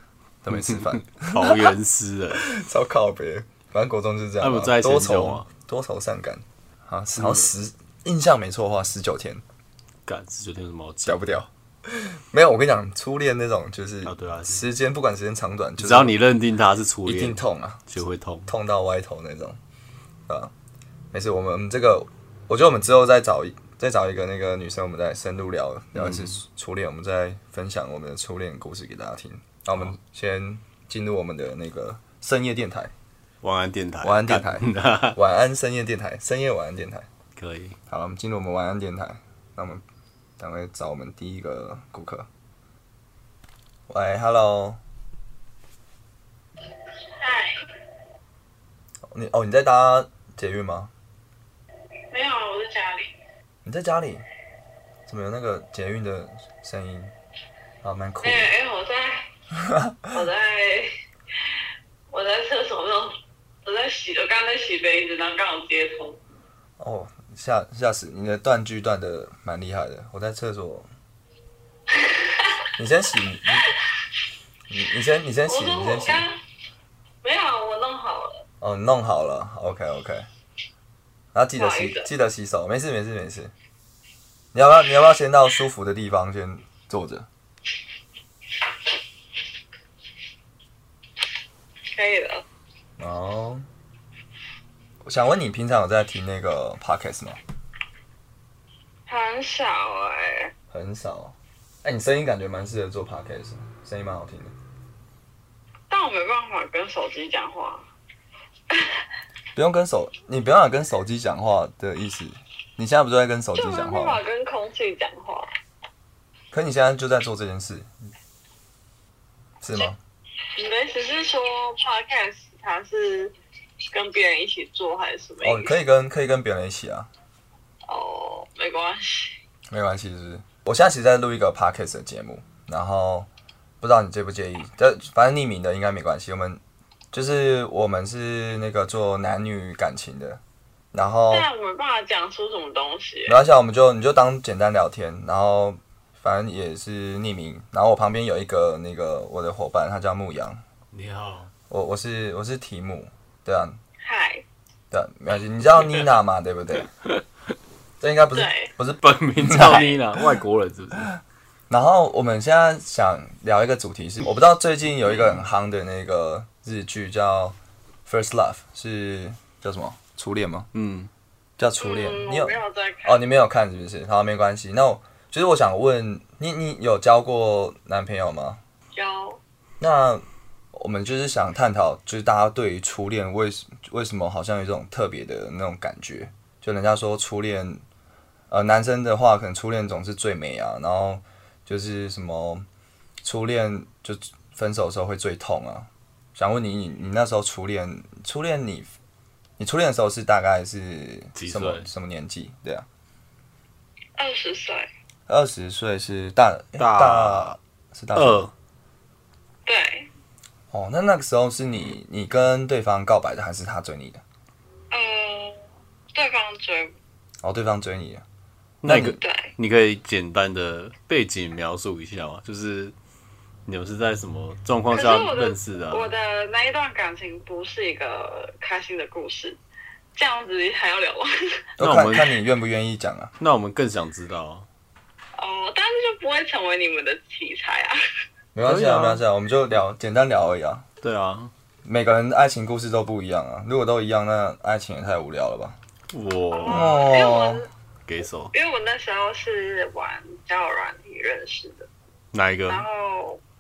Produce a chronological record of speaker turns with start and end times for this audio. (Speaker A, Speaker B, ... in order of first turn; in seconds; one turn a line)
Speaker A: 0.4-1.8
Speaker B: 0.5-2.5
Speaker A: 2.3-9.4
Speaker B: 4.4-5.5
Speaker B: 7.2-7.5
Speaker B: 10.1-11.2
Speaker A: 11.0-16.1
Speaker B: 14.1-14.7
Speaker B: 15.8-18.5
Speaker A: 17.1-17.8
Speaker A: 18.5-19.6
Speaker A: 21.1-32.9
Speaker B: 25.9-26.4
Speaker B: 33.4-35.2
Speaker A: 34.0-37.1
Speaker B: 37.4-37.8
Speaker A: 37.9-39.8
Speaker A: 40.4-42.3
Speaker A: 43.9-44.8
Speaker C: 47.1-47.6
Speaker A: 49.1-50.9
Speaker C: 52.1-53.1
Speaker A: 53.6-54.2
Speaker A: 55.1-57.1
Speaker A: 57.8-58.5
Speaker C: 58.2-59.3
Speaker A: 59.6-60.1
Speaker C: 60.1-60.9
Speaker C: 62.1-66.2
Speaker A: 66.8-70.9
Speaker C: 72.0-72.5
Speaker A: 72.8-73.7
Speaker A: 74.7-76.3
Speaker C: 75.5-76.4
Speaker C: 77.2-78.5
Speaker A: 78.6-80.3
Speaker A: 81.3-83.5
Speaker C: 81.6-82.1
Speaker A: 84.5-87.3
Speaker C: 91.9-92.5
Speaker A: 93.0-93.7
Speaker A: 95.0-97.4
Speaker C: 99.1-100.5
Speaker A: 100.7-104.5
Speaker C: 105.9-107.9
Speaker C: 108.7-109.0
Speaker A: 109.5-114.2
Speaker C: 113.5-115.5
Speaker A: 116.5-117.9
Speaker A: 119.6-120.0
Speaker C: 120.6-123.3
Speaker C: 123.9-125.8
Speaker A: 125.4-127.1
Speaker C: 127.9-129.4
Speaker A: 129.7-133.3
Speaker A: 133.8-136.6
Speaker A: 137.1-140.4
Speaker A: 140.9-141.5
Speaker C: 141.3-143.4
Speaker A: 143.3-150.6
Speaker B: 150.9-151.5
Speaker A: 151.7-153.8
Speaker C: 154.0-154.4
Speaker A: 154.9-156.9
Speaker A: 158.0-160.3
Speaker C: 158.3-158.7
Speaker B: 159.0-161.1
Speaker A: 161.7-170.7
Speaker B: 170.7-171.1
Speaker A: 171.6-178.6
Speaker C: 171.8-173.2
Speaker C: 178.9-179.4
Speaker A: 179.8-180.2
Speaker A: 180.7-187.8
Speaker A: 188.5-192.7
Speaker A: 193.2-198.9
Speaker A: 199.6-202.9
Speaker B: 201.4-201.9
Speaker C: 204.2-204.9
Speaker A: 205.3-208.5
Speaker B: 206.8-207.6
Speaker B: 208.2-208.5
Speaker C: 209.7-210.1
Speaker A: 210.7-214.2
Speaker C: 214.9-215.6
Speaker C: 216.1-216.9
Speaker A: 217.4-218.2
Speaker B: 218.8-222.9
Speaker A: 218.9-219.2
Speaker C: 219.0-219.5
Speaker B: 223.7-226.1
Speaker C: 224.9-229.6
Speaker C: 230.2-231.5
Speaker A: 231.8-233.3
Speaker B: 231.8-232.4
Speaker B: 233.4-234.7
Speaker C: 235.4-238.0
Speaker A: 238.6-240.8
Speaker B: 238.7-239.2
Speaker B: 241.0-241.5
Speaker A: 241.8-245.8
Speaker B: 246.1-247.1
Speaker C: 246.5-247.7
Speaker A: 246.7-247.6
Speaker B: 248.1-248.5
Speaker C: 248.5-251.9
Speaker B: 252.3-252.8
Speaker C: 252.7-253.4